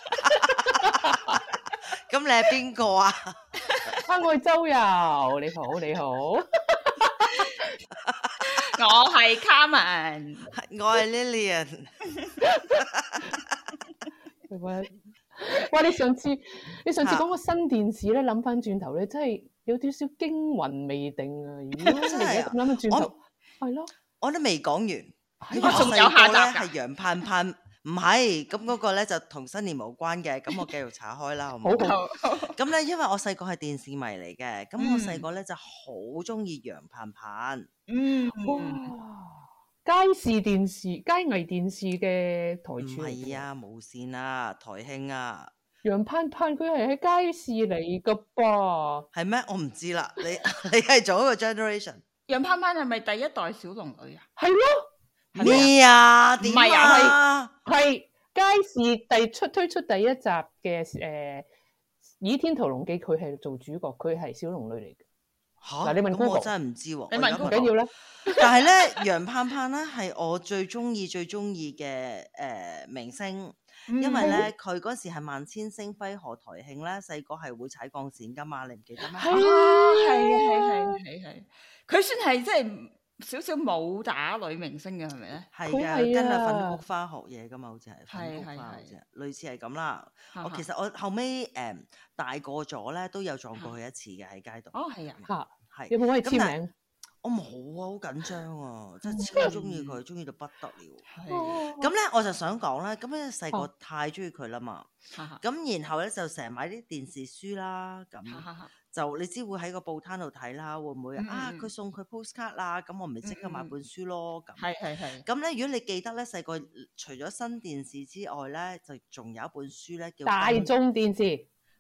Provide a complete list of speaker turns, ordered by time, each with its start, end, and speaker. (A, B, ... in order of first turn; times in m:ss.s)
0:00.2-0:00.9 A
0:00.9-0:01.2 B
0:02.1-0:03.4 A
0:04.0-0:07.4 B
0:07.3-0:07.6 C
0:08.0-0:08.4 A
0:08.4-0:10.5 C
0:10.5-0:11.9 A
0:12.8-0:13.4 A
0:14.5-0:23.9 B
0:22.0-0:23.1 A
0:24.2-0:32.0 A
0:25.4-0:26.0 B
0:25.6-0:26.7 C
0:31.6-0:32.0 B
0:31.8-0:32.6 C
0:32.6-0:37.7 A
0:34.8-0:35.2 C
0:37.9-0:38.9 C
0:38.4-0:43.4 B
0:42.8-0:45.5 A
0:45.8-0:49.1 B
0:49.1-0:52.0 A
0:52.3-0:54.3 C
0:54.4-0:55.7 B
0:55.4-0:55.7 C
0:55.4-0:57.5 A
0:56.4-0:57.2 C
0:56.6-1:01.5 B
1:02.2-1:05.0 B
1:05.6-1:07.8 A
1:05.8-1:06.5 B
1:07.1-1:07.7 C
1:07.4-1:07.9 B
1:08.3-1:19.3 A
1:13.9-1:14.4 C
1:14.2-1:14.5 B
1:19.2-1:20.8 B
1:19.3-1:25.5 C
1:25.5-1:34.7 A
1:25.7-1:26.8 B
1:28.1-1:28.9 C
1:30.3-1:30.7 C
1:34.7-1:35.3 C
1:35.3-1:36.7 B
1:35.7-1:36.6 A
1:37.2-1:41.0 A
1:39.1-1:39.5 B
1:39.2-1:40.0 C
1:41.1-1:41.6 C
1:41.3-1:41.9 B
1:41.8-1:54.6 A
1:45.1-1:45.4 C
1:48.3-1:48.7 C
1:51.2-1:51.7 C
1:53.2-1:53.7 C
1:54.6-1:55.2 C
1:55.2-2:00.7 A
2:00.2-2:01.4 B